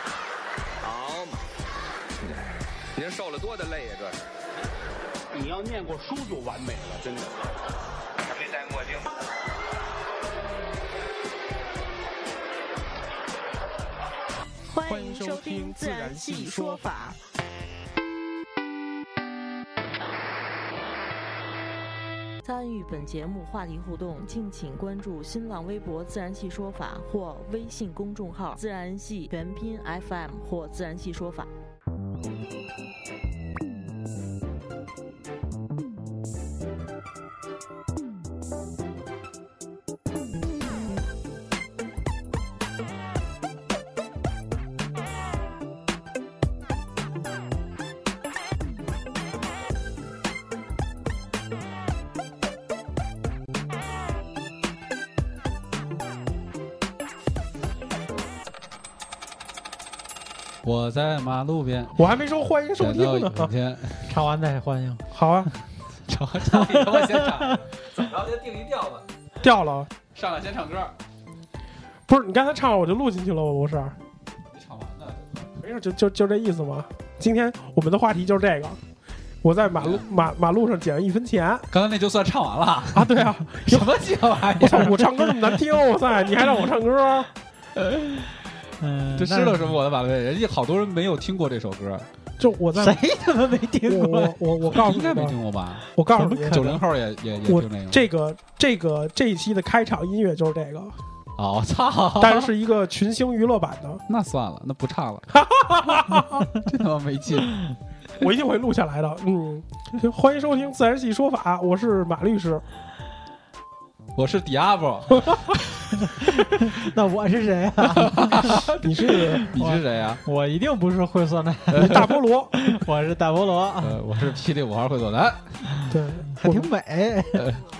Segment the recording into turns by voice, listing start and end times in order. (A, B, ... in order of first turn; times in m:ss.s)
0:00.8-0:01.4 A
0:03.0-0:04.2 A
0:05.3-0:07.5 B
0:08.2-0:09.1 A
0:14.7-0:17.2 C
0:14.8-0:16.8 D
0:22.4-0:31.5 C
1:00.6-1:02.0 E
1:02.0-1:03.5 D
1:02.8-1:04.1 E
1:04.1-1:05.0 F
1:05.1-1:05.5 D
1:06.1-1:09.0 E
1:06.5-1:07.5 F
1:09.4-1:09.9 D
1:10.1-1:10.9 E
1:12.1-1:14.0 D
1:14.5-1:15.5 E
1:15.6-1:18.8 D
1:19.4-1:21.7 D
1:19.8-1:20.1 E
1:21.7-1:25.3 E
1:22.9-1:23.9 D
1:24.5-1:27.3 D
1:27.8-1:28.3 E
1:28.8-1:29.8 F
1:29.2-1:32.1 E
1:32.4-1:33.0 D
1:32.8-1:34.4 F
1:33.8-1:35.4 D
1:34.7-1:35.9 E
1:36.0-1:36.8 D
1:36.1-1:36.8 F
1:36.5-1:38.0 E
1:37.4-1:41.0 D
1:41.4-1:42.5 E
1:42.2-1:44.0 D
1:44.1-1:45.3 E
1:45.3-1:46.5 D
1:46.1-1:47.5 E
1:48.2-1:52.6 D
1:54.1-1:55.6 E
1:56.4-1:58.7 F
1:58.0-2:00.2 E
1:58.8-1:59.4 D
1:59.4-2:04.0 F
2:01.7-2:02.2 E
2:01.8-2:02.5 D
2:03.8-2:05.6 E
2:05.9-2:06.7 D
2:06.4-2:07.5 F
2:07.3-2:07.6 E